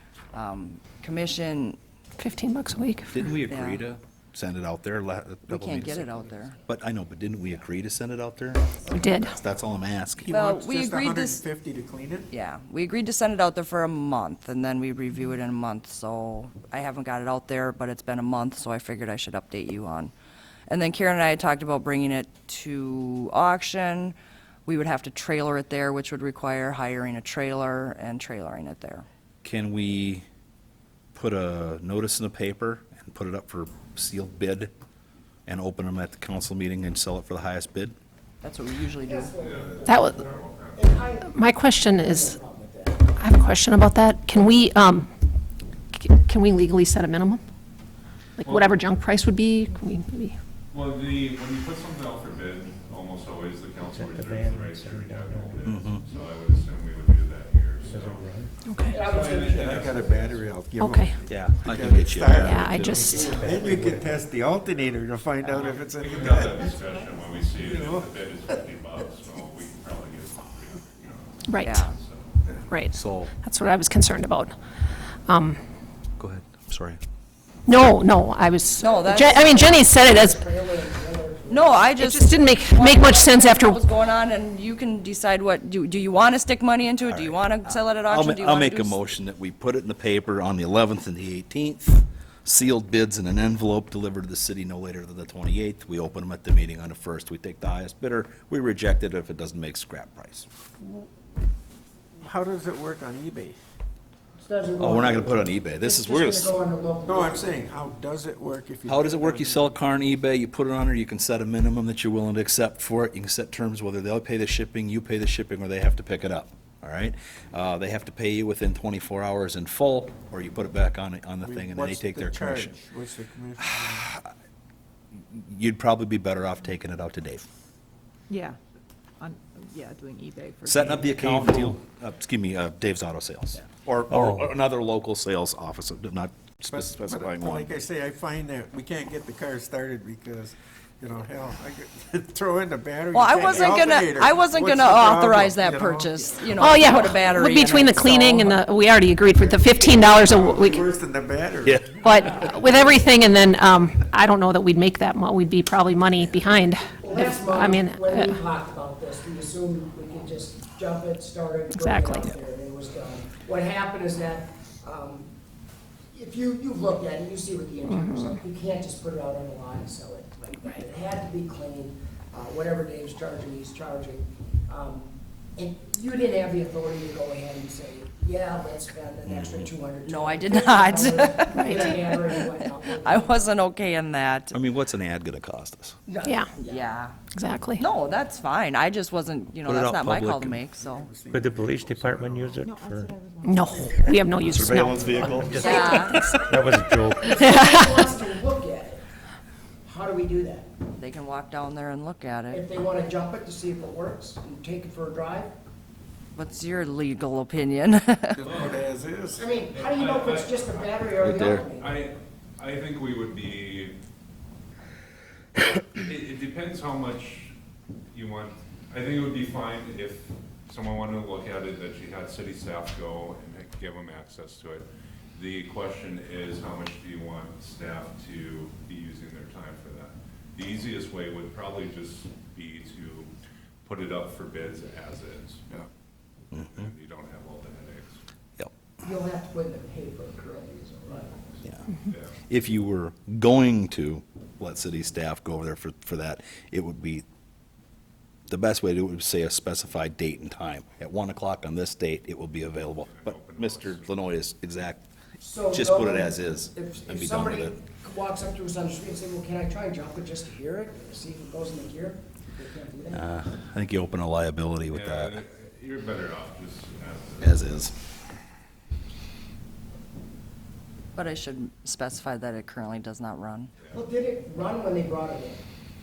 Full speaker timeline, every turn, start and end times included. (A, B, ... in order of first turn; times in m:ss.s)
0:00.3-0:01.8 A
0:02.2-0:03.2 B
0:03.1-0:10.3 C
0:03.5-0:03.8 A
0:05.5-0:06.6 A
0:08.9-0:09.3 B
0:10.2-0:12.3 D
0:10.3-0:11.4 A
0:12.3-0:20.1 A
0:20.7-0:29.0 A
0:29.4-0:30.2 C
0:31.1-0:34.7 C
0:35.4-0:37.9 C
0:38.4-0:39.3 A
0:39.0-0:43.1 E
0:39.4-0:41.1 F
0:39.8-0:40.2 B
0:41.2-0:42.4 B
0:43.2-0:45.1 B
0:45.9-0:47.4 B
0:48.4-0:50.4 B
0:48.4-0:48.8 F
0:50.7-1:00.4 F
0:54.0-0:55.5 G
0:55.6-0:56.0 C
0:57.9-0:58.5 G
0:58.6-0:59.1 B
0:58.9-1:00.2 E
0:59.3-1:06.8 D
1:00.8-1:01.2 B
1:01.2-1:03.6 C
1:02.3-1:03.6 B
1:03.1-1:04.1 G
1:04.0-1:12.4 F
1:07.6-1:08.6 D
1:11.5-1:11.8 B
1:11.6-1:11.9 A
1:12.5-1:13.3 C
1:12.7-1:14.5 B
1:15.3-1:15.6 B
1:16.2-1:17.0 C
1:17.7-1:20.4 B
1:18.8-1:19.8 A
1:19.6-1:21.9 E
1:21.5-1:29.0 A
1:22.0-1:23.8 B
1:27.0-1:27.4 C
1:28.0-1:40.5 C
1:42.2-1:43.6 D
1:44.4-1:47.5 E
1:44.8-1:46.6 C
1:47.1-1:49.8 D
1:48.9-2:02.8 C
2:01.4-2:04.1 D
2:05.3-2:07.4 C
2:08.3-2:08.6 H
2:09.2-2:11.7 H
2:10.6-2:17.7 C
2:16.6-2:26.8 D
2:23.1-2:28.6 A
2:26.6-2:30.8 B
2:29.7-2:31.9 D
2:31.6-2:32.5 C
2:32.0-2:38.4 B
2:37.0-2:45.3 E
2:41.7-2:42.3 B
2:46.1-3:03.5 E
2:47.9-2:48.4 B
2:59.2-2:59.7 C
3:00.0-3:02.1 A
3:01.5-3:01.8 B
3:03.0-3:04.6 A
3:04.5-3:06.0 C
3:06.1-3:06.9 E
3:06.2-3:06.5 B
3:06.6-3:07.2 A
3:07.3-3:07.8 B
3:07.8-3:11.1 A
3:09.6-3:10.6 C
3:10.7-3:12.7 D
3:11.3-3:13.1 G
3:12.6-3:14.1 H
3:13.4-3:15.5 B
3:14.5-3:15.6 C
3:14.7-3:15.3 H
3:15.1-3:17.3 G
3:15.5-3:16.5 E
3:15.6-3:16.2 A
3:17.2-3:19.0 E
3:17.3-3:18.1 B
3:19.8-3:20.7 E
3:21.0-3:22.6 A
3:22.5-3:25.5 E
3:26.3-3:28.5 A
3:28.4-3:29.5 D
3:28.5-3:28.8 F
3:29.4-3:32.0 E
3:29.7-3:34.0 F
3:31.2-3:31.6 C
3:35.9-3:37.6 F
3:38.1-3:53.3 F
3:53.8-3:55.7 F
3:56.5-3:58.2 F
3:56.5-3:56.9 C
3:59.0-4:01.6 E
4:02.1-4:02.4 F
4:02.5-4:07.2 C
4:08.5-4:15.1 C
4:13.0-4:14.1 F
4:15.4-4:23.3 E
4:15.6-4:17.8 C
4:23.1-4:25.4 C
4:24.9-4:27.8 F
4:27.4-4:27.9 C
4:31.1-4:33.7 A
4:33.8-4:34.0 F
4:33.9-4:35.6 E